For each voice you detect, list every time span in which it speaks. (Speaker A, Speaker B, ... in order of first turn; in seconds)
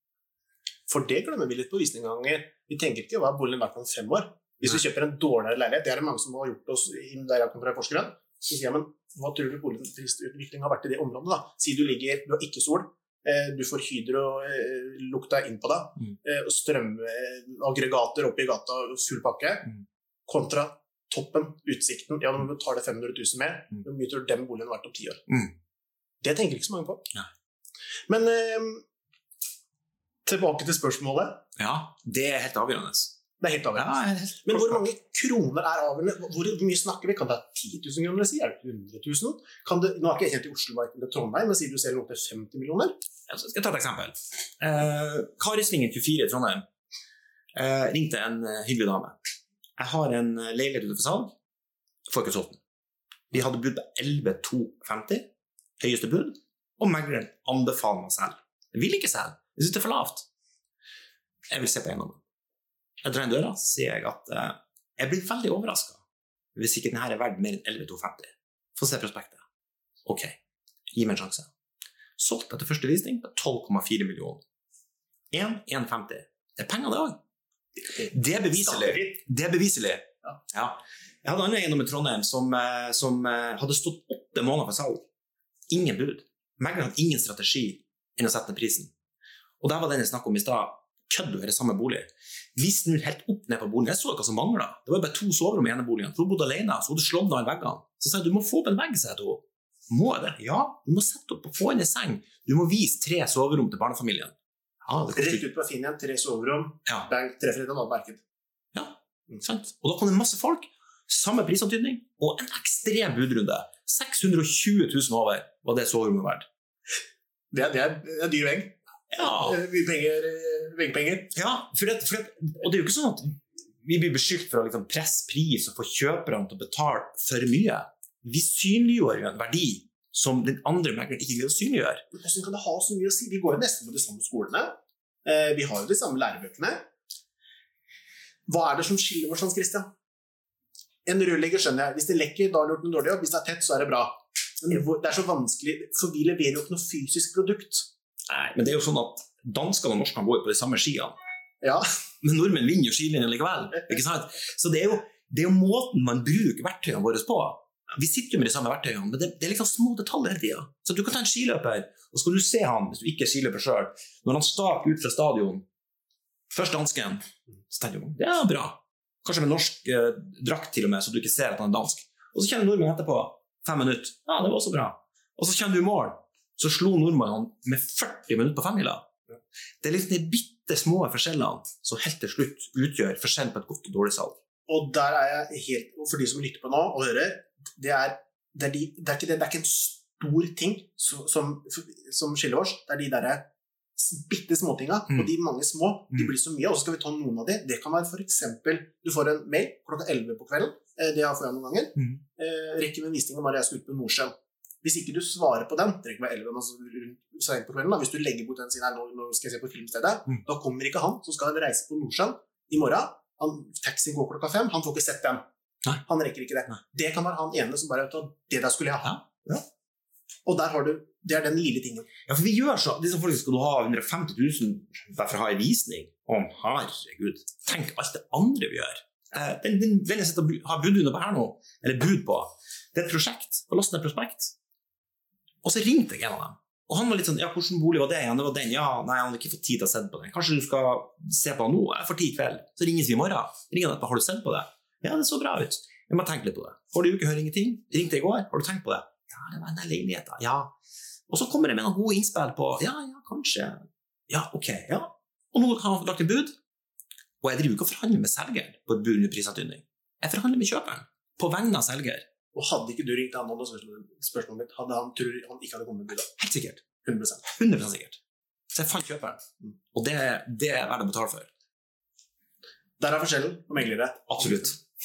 Speaker A: 0.9-25.2, 26.2-27.1, 28.1-28.8, 30.2-31.4, 33.4-42.9, 77.9-79.1, 105.1-108.2, 117.5-121.3, 132.1-134.7, 135.2-136.8, 138.5-139.9, 141.1-147.8, 184.7-193.4, 193.9-215.4, 216.0-219.2, 220.4-222.1, 262.5-266.3, 267.0-267.5, 273.0-274.8
Speaker B: 25.3-25.5, 31.6-33.2, 33.8-34.8, 43.3-46.6, 47.5-49.2, 49.8-51.3, 52.1-52.6, 53.3-55.3, 55.8-60.2, 61.5-62.2, 63.0-66.0, 66.5-69.4, 70.0-70.3, 70.9-71.5, 72.2-74.4, 75.3-77.2, 78.1-85.0, 85.7-88.9, 89.6-104.3, 104.9-105.4, 108.7-116.4, 119.1-119.6, 121.3-132.0, 148.3-151.1, 152.2-165.6, 166.5-179.1, 179.8-184.3, 219.0-219.6, 222.3-234.5, 235.6-250.7, 251.3-256.5, 257.4-262.2, 266.4-266.8, 267.4-268.2, 268.7-269.4, 269.9-271.5, 274.3-274.7